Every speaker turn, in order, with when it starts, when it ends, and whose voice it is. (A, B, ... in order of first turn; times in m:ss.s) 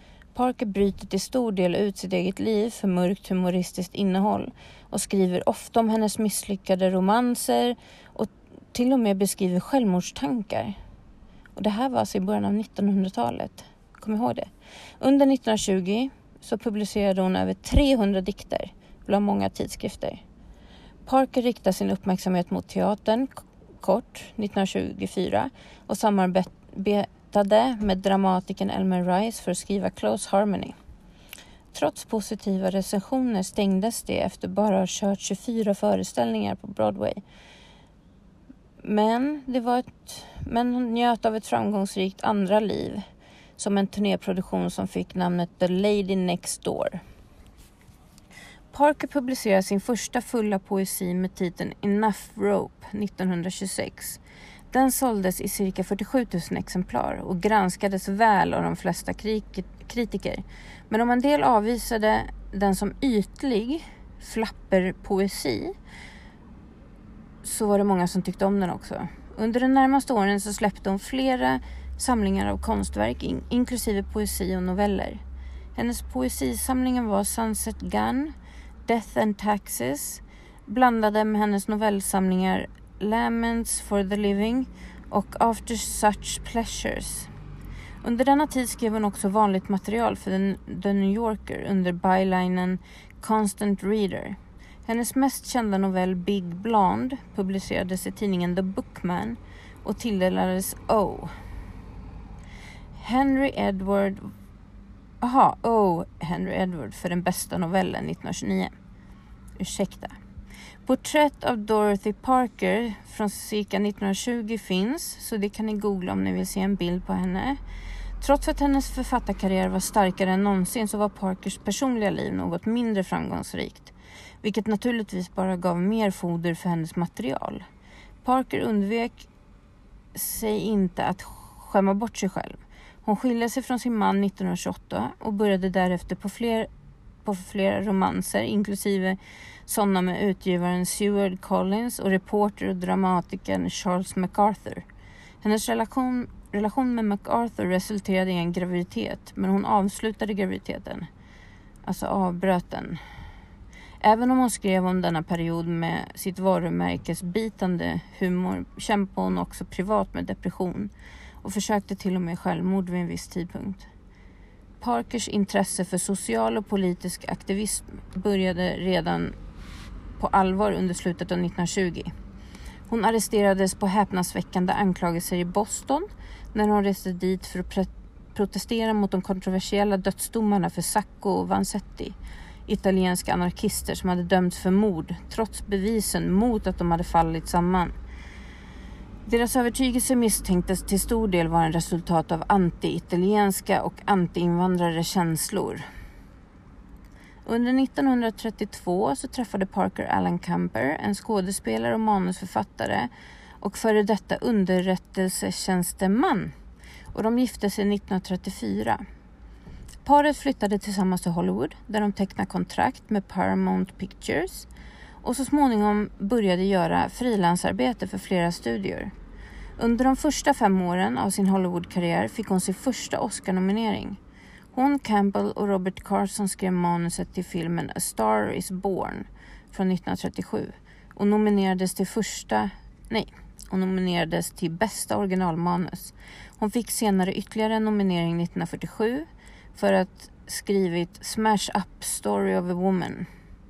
0:00.3-0:10.8 A
0:11.5-0:14.5 A
0:15.0-0:20.2 A
0:21.0-0:23.3 A
0:23.8-0:30.7 A
0:31.7-0:37.2 A
0:38.8-0:43.0 A
0:43.6-0:47.0 A
0:48.7-0:54.2 A
0:54.7-1:05.7 A
1:07.4-1:15.2 A
1:15.8-1:18.3 A
1:18.8-1:27.3 A
1:28.0-1:41.3 A
1:43.0-1:44.3 A
1:45.2-1:48.7 A
1:49.6-1:50.2 A
1:50.8-1:57.6 A
1:58.2-2:07.6 A
2:08.2-2:09.3 A
2:10.1-2:16.7 A
2:17.2-2:24.8 A
2:25.4-2:31.1 A
2:31.8-2:33.0 A
2:34.0-2:43.9 A
2:44.8-2:49.3 A
2:50.2-2:52.1 A
2:52.9-3:02.2 A
3:02.7-3:07.9 A
3:09.2-3:15.8 A
3:17.4-3:23.1 A
3:23.6-3:26.5 A
3:27.1-3:29.0 A
3:30.0-3:34.7 A
3:35.2-3:39.1 A
3:39.8-3:44.2 A
3:44.7-4:03.3 A